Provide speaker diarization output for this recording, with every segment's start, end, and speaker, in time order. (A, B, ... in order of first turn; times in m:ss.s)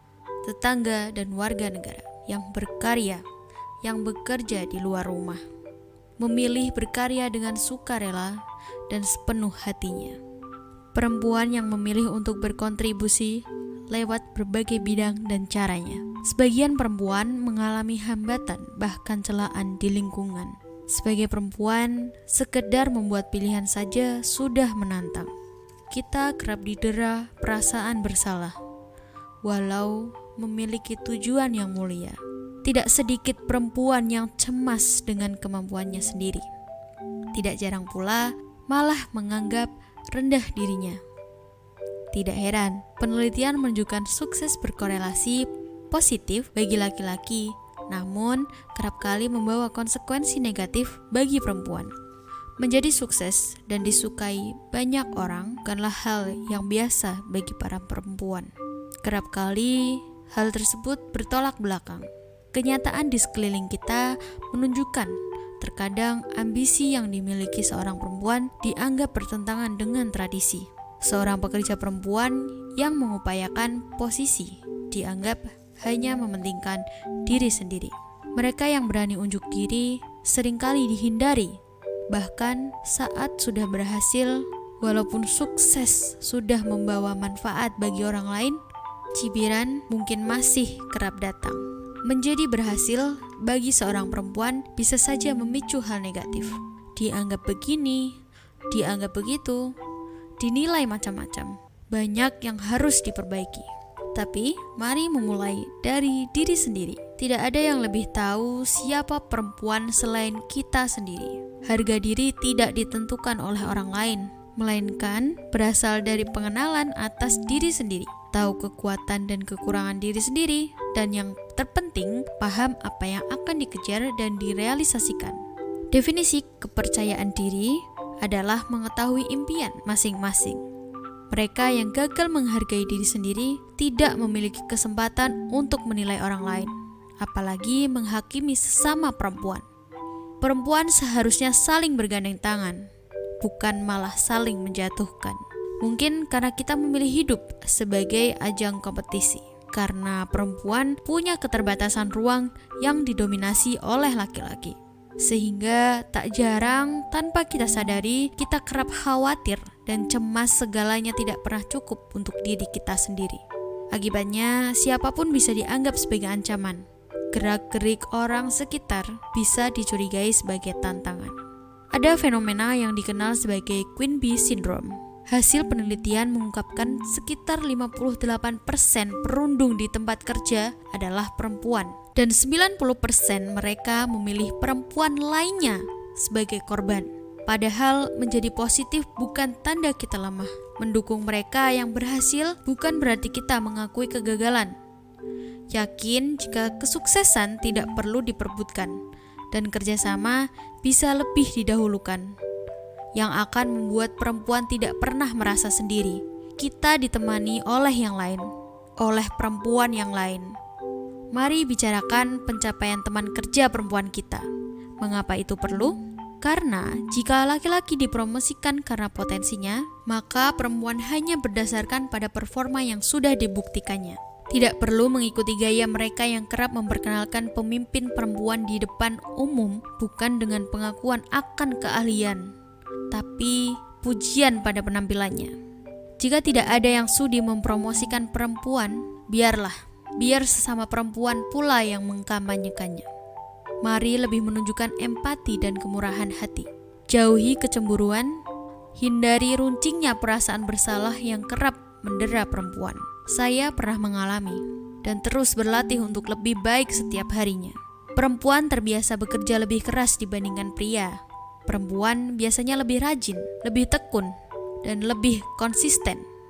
0:00.4-0:03.2 A
0:03.8-0:05.4 A
0:06.2-0:10.2 A
0:10.9-0:25.3 A
0:25.9-0:28.6 A
0:29.4-0:36.4 A
0:37.3-0:41.0 A
0:42.1-0:51.9 A
0:52.6-0:58.5 A
0:59.0-1:21.6 A
1:22.1-1:28.6 A
1:29.1-1:38.2 A
1:38.7-1:39.7 A
1:40.4-2:05.4 A
2:05.9-2:10.6 A
2:11.3-2:19.6 A
2:20.4-2:22.9 A
2:23.4-2:43.4 A
2:43.9-2:51.3 A
2:51.9-3:14.7 A
3:15.7-3:19.0 A
3:19.5-3:22.3 A
3:23.2-3:28.4 A
3:29.0-3:30.5 A
3:31.3-3:34.5 A
3:35.0-3:52.5 A
3:53.1-3:55.5 A
3:56.2-4:03.1 A
4:03.8-4:08.4 A
4:09.0-4:26.2 A